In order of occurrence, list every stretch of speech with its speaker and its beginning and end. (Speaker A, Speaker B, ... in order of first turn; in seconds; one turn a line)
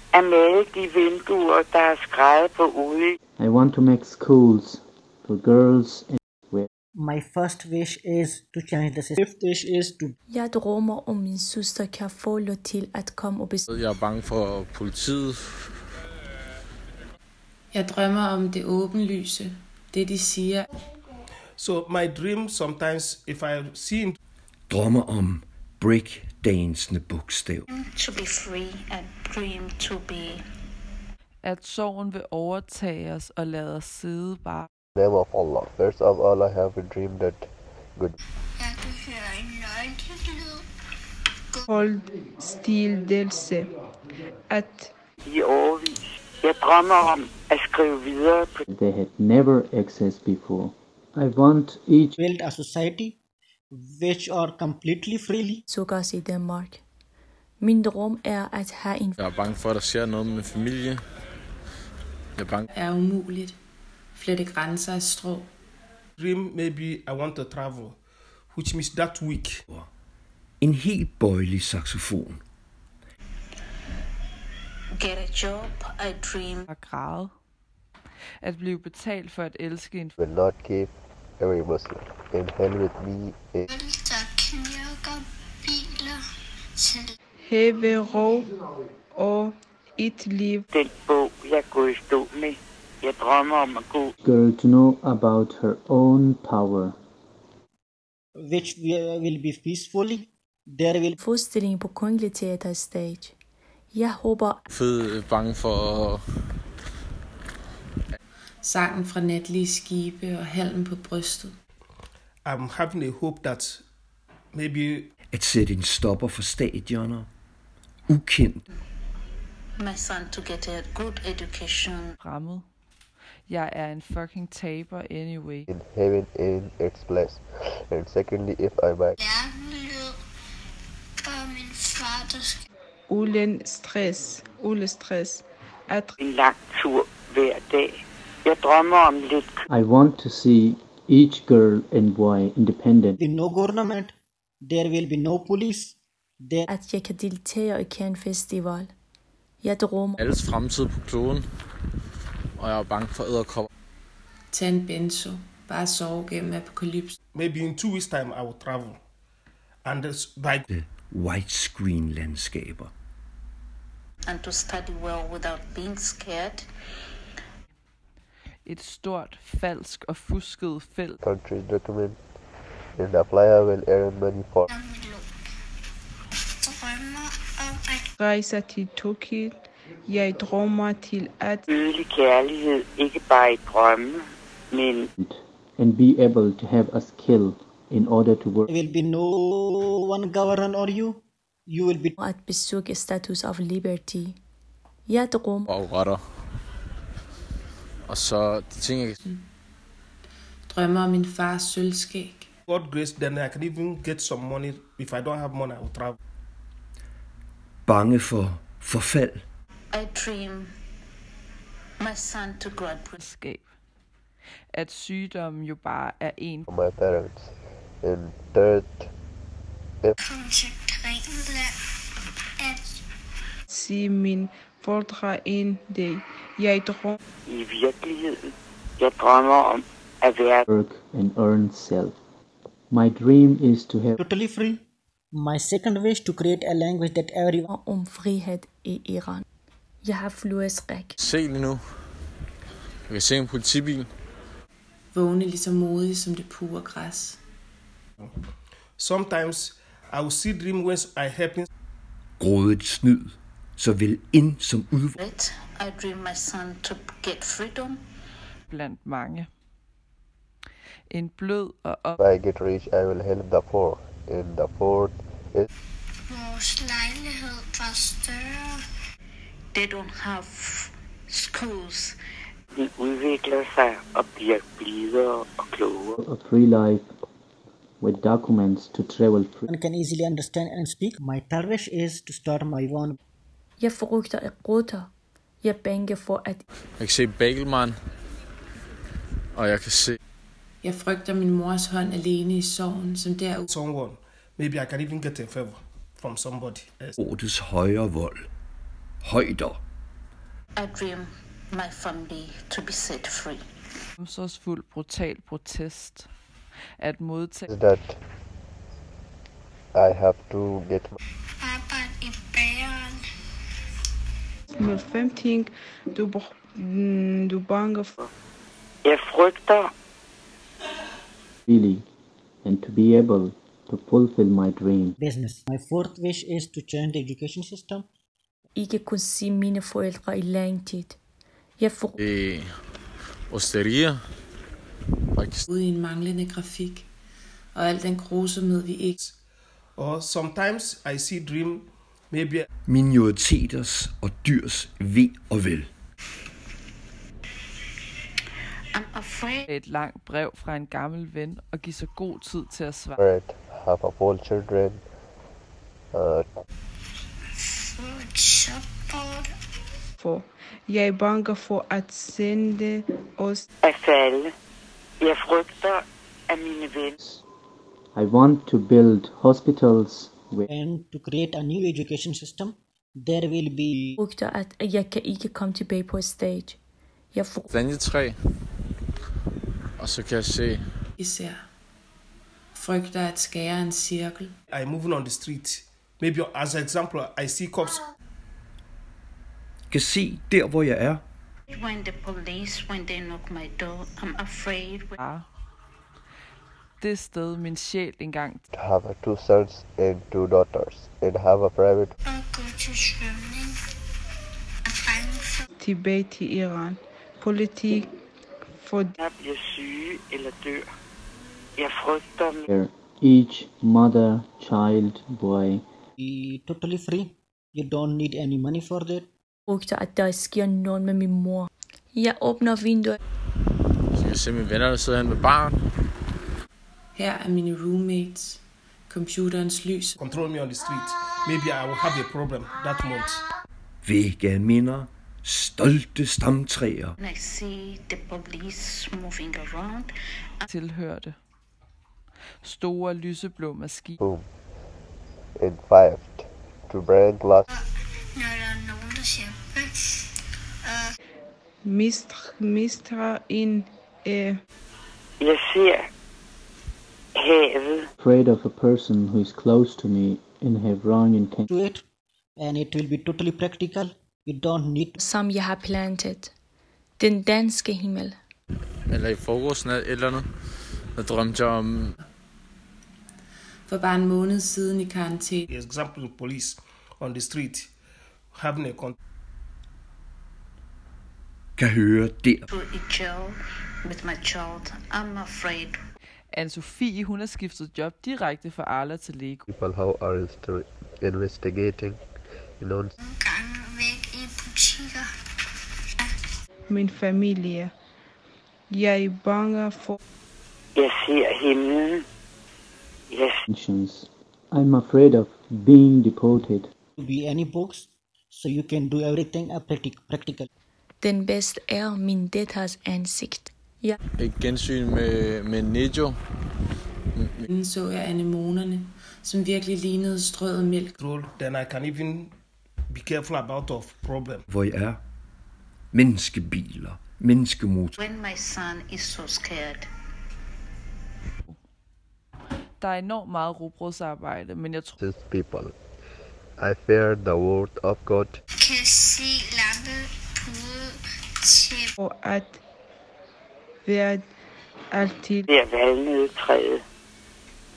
Speaker A: 0.1-3.2
Speaker B: 3.4-6.7
Speaker C: 7.0-10.1
Speaker D: 10.3-13.7
Speaker E: 13.7-15.4
Speaker F: 17.7-20.7
Speaker G: 21.6-24.2
Speaker H: 24.7-27.6
Speaker I: 27.7-30.4
Speaker J: 31.4-34.7
Speaker K: 35.0-38.1
Speaker A: 38.6-40.6
Speaker L: 41.7-43.7
Speaker L: 44.5-44.9
Speaker A: 45.2-48.6
Speaker B: 48.7-52.1
Speaker C: 52.2-53.1
Speaker C: 53.8-55.6
Speaker D: 55.7-56.8
Speaker D: 57.6-59.2
Speaker E: 59.2-61.0
Speaker E: 62.4-62.7
Speaker F: 62.7-63.5
Speaker F: 64.1-65.5
Speaker G: 66.2-68.0
Speaker G: 68.5-69.6
Speaker H: 70.6-72.4
Speaker I: 75.0-76.7
Speaker J: 76.7-77.3
Speaker J: 78.4-80.2
Speaker K: 80.2-83.7
Speaker A: 83.7-86.2
Speaker A: 86.8-87.1
Speaker L: 87.4-88.5
Speaker L: 89.1-90.7
Speaker A: 90.7-94.1
Speaker B: 94.2-97.0
Speaker C: 98.4-101.2
Speaker D: 101.2-103.3
Speaker D: 103.9-104.6
Speaker E: 104.7-106.2
Speaker F: 108.6-111.5
Speaker G: 112.4-113.8
Speaker G: 114.5-115.1
Speaker H: 115.3-117.3
Speaker H: 118.1-118.6
Speaker I: 119.8-122.2
Speaker J: 122.2-122.6
Speaker J: 123.5-125.7
Speaker K: 125.7-129.2
Speaker A: 129.2-130.1
Speaker A: 131.2-132.6
Speaker L: 133.1-136.2
Speaker A: 136.2-139.6
Speaker B: 139.7-143.2
Speaker C: 143.2-146.7
Speaker D: 146.7-148.9
Speaker D: 149.6-150.2
Speaker E: 150.2-151.4
Speaker E: 152.6-153.7
Speaker F: 154.5-157.2
Speaker G: 157.3-159.0
Speaker G: 159.8-160.6
Speaker H: 160.7-162.9
Speaker I: 164.2-166.6
Speaker J: 168.6-171.2
Speaker K: 171.2-172.2
Speaker K: 173.0-174.7
Speaker A: 174.7-175.2
Speaker A: 176.6-178.1
Speaker L: 178.2-181.7
Speaker A: 181.7-185.1
Speaker B: 185.2-188.7
Speaker C: 188.7-192.2
Speaker D: 192.2-194.4
Speaker D: 195.1-195.7
Speaker E: 195.7-196.2
Speaker E: 198.1-199.2
Speaker F: 200.7-202.5
Speaker G: 202.7-206.2
Speaker H: 207.8-209.4
Speaker I: 209.9-210.7
Speaker I: 212.0-213.2
Speaker J: 213.2-213.7
Speaker J: 214.7-216.7
Speaker K: 216.7-219.1
Speaker A: 220.2-221.8
Speaker A: 222.6-223.0
Speaker L: 223.7-227.2
Speaker A: 227.4-230.7
Speaker B: 230.7-232.1
Speaker B: 232.9-234.2
Speaker C: 234.2-234.8
Speaker C: 235.3-237.7
Speaker D: 237.7-239.4
Speaker D: 240.0-241.2
Speaker E: 241.2-241.8
Speaker E: 243.1-244.1
Speaker F: 245.1-247.4
Speaker G: 249.0-251.7
Speaker H: 252.4-255.2
Speaker I: 255.2-258.0
Speaker J: 258.7-259.5
Speaker J: 261.1-262.2
Speaker K: 262.2-265.7
Speaker A: 266.3-268.8
Speaker I: 269.7-272.2
Speaker A: 272.8-276.2
Speaker B: 276.1-277.1
Speaker B: 278.0-279.6
Speaker C: 279.7-283.1
Speaker D: 283.8-285.1
Speaker D: 285.6-286.6
Speaker E: 287.0-287.9
Speaker E: 289.5-290.2
Speaker F: 290.8-293.7
Speaker G: 293.7-297.2
Speaker H: 297.2-298.5
Speaker H: 299.2-299.8
Speaker I: 300.8-303.6
Speaker J: 304.2-306.3
Speaker J: 307.0-307.7
Speaker K: 307.7-308.2
Speaker K: 309.9-311.2
Speaker A: 311.6-313.2
Speaker L: 314.7-318.1
Speaker A: 319.0-319.9
Speaker B: 321.7-322.0
Speaker B: 322.6-325.1
Speaker C: 325.2-328.0
Speaker D: 328.8-331.2
Speaker D: 331.8-332.2
Speaker E: 332.2-332.6
Speaker E: 333.5-334.2
Speaker E: 335.4-335.6
Speaker F: 335.7-337.1
Speaker F: 337.7-339.2
Speaker G: 340.0-342.7
Speaker H: 342.9-345.9
Speaker I: 348.9-349.7
Speaker J: 349.7-353.2
Speaker K: 353.2-355.0
Speaker K: 356.1-356.4
Speaker A: 357.6-359.5
Speaker L: 360.2-363.6
Speaker A: 363.8-364.5
Speaker A: 365.2-367.1
Speaker B: 368.1-370.6
Speaker C: 370.7-374.1
Speaker D: 374.2-376.8
Speaker D: 377.3-377.7
Speaker E: 377.7-378.3
Speaker E: 380.0-380.8
Speaker F: 381.2-381.6
Speaker F: 382.7-384.5
Speaker G: 384.7-388.1
Speaker H: 389.9-391.2
Speaker I: 391.7-395.2
Speaker J: 395.2-395.5
Speaker J: 397.0-398.6
Speaker K: 398.7-402.1
Speaker A: 402.2-403.8
Speaker A: 404.9-405.6
Speaker L: 405.8-408.1
Speaker L: 408.6-409.2
Speaker A: 409.2-410.9
Speaker A: 411.8-412.6
Speaker B: 412.7-415.8
Speaker C: 416.2-419.2
Speaker D: 419.7-423.2
Speaker E: 424.1-425.8
Speaker F: 427.1-430.1
Speaker G: 430.2-433.5
Speaker H: 434.0-437.1
Speaker I: 437.2-440.7
Speaker J: 440.7-441.3
Speaker J: 442.6-444.2
Speaker K: 444.2-444.4
Speaker K: 445.6-447.7
Speaker A: 448.4-450.2
Speaker A: 450.9-451.1
Speaker L: 451.8-454.6
Speaker A: 455.4-456.1
Speaker A: 457.4-458.1
Speaker B: 458.2-461.7
Speaker C: 461.7-462.0
Speaker C: 462.6-465.2
Speaker D: 465.2-466.5
Speaker D: 467.2-468.4
Speaker E: 469.1-470.4
Speaker E: 471.1-472.1
Speaker F: 473.9-475.7
Speaker G: 475.7-477.9
Speaker G: 478.5-479.1
Speaker H: 481.8-482.6
Speaker I: 482.7-486.0
Speaker J: 486.5-489.6
Speaker K: 489.7-492.2
Speaker K: 492.8-493.1
Speaker A: 493.2-495.3
Speaker L: 496.9-497.9
Speaker L: 498.9-500.2
Speaker A: 500.9-502.2
Speaker A: 503.3-503.6
Speaker B: 503.7-506.9
Speaker C: 507.2-510.7
Speaker D: 511.2-514.2
Speaker E: 514.4-516.3
Speaker E: 517.3-517.7
Speaker F: 517.7-521.1
Speaker G: 521.2-522.5
Speaker G: 523.1-524.6
Speaker H: 524.7-525.2
Speaker H: 526.1-528.1
Speaker I: 528.2-530.1
Speaker J: 533.0-535.2
Speaker K: 535.2-535.9
Speaker K: 536.8-538.6
Speaker A: 538.8-542.1
Speaker L: 542.2-542.8
Speaker L: 544.0-544.5
Speaker L: 545.1-545.7
Speaker A: 545.7-547.0